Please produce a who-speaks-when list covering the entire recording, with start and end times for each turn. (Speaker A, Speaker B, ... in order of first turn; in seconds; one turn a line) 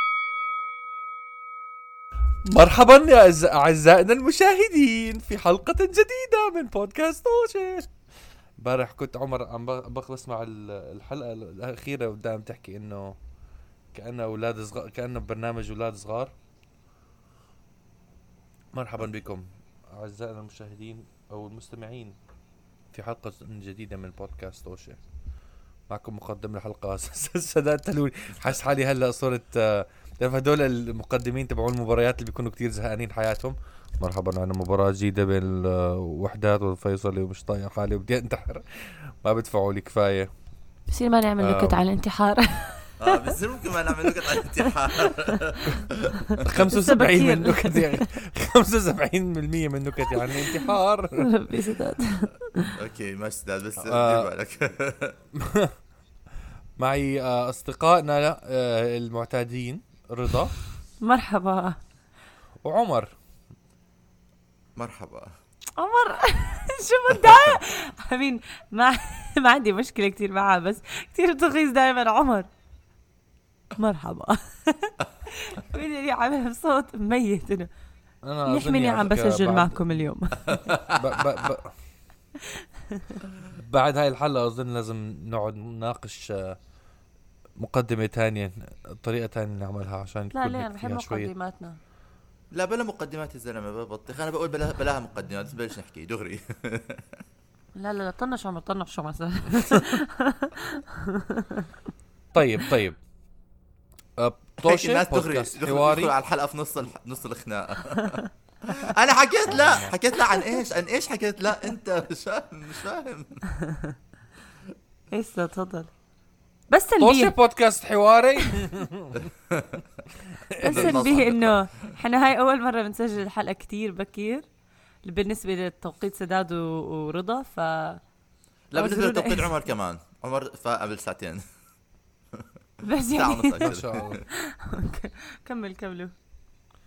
Speaker A: 2.5-7.9
Speaker A: 8.6-13.2
Speaker A: 13.9-16.3
Speaker A: 18.7-22.1
Speaker A: 22.9-25.0
Speaker A: 25.9-40.3
Speaker B: 40.9-43.4
Speaker A: 41.4-41.8
Speaker C: 43.0-46.4
Speaker B: 44.0-45.4
Speaker B: 46.3-48.1
Speaker A: 46.4-51.3
Speaker B: 50.1-52.8
Speaker C: 52.7-55.2
Speaker A: 53.8-54.3
Speaker A: 55.3-55.7
Speaker A: 56.8-60.6
Speaker B: 61.0-61.8
Speaker A: 62.6-63.1
Speaker C: 64.8-65.3
Speaker B: 65.8-72.5
Speaker C: 67.2-67.5
Speaker B: 73.7-77.7
Speaker A: 78.2-79.8
Speaker B: 78.5-80.7
Speaker C: 80.5-81.5
Speaker A: 80.9-81.8
Speaker B: 82.4-83.2
Speaker A: 83.5-86.6
Speaker A: 87.6-91.3
Speaker B: 90.3-91.8
Speaker C: 92.5-97.2
Speaker B: 97.8-101.7
Speaker A: 102.3-103.0
Speaker A: 104.2-106.1
Speaker C: 104.6-113.4
Speaker B: 108.0-108.2
Speaker A: 109.5-109.9
Speaker B: 113.6-113.9
Speaker B: 115.1-115.9
Speaker B: 116.7-117.3
Speaker A: 117.0-119.2
Speaker C: 119.3-119.9
Speaker A: 120.3-121.2
Speaker B: 120.6-124.4
Speaker C: 120.6-121.9
Speaker B: 125.0-128.0
Speaker C: 128.7-131.4
Speaker B: 128.7-129.6
Speaker B: 132.8-136.1
Speaker C: 133.1-134.2
Speaker A: 133.6-134.2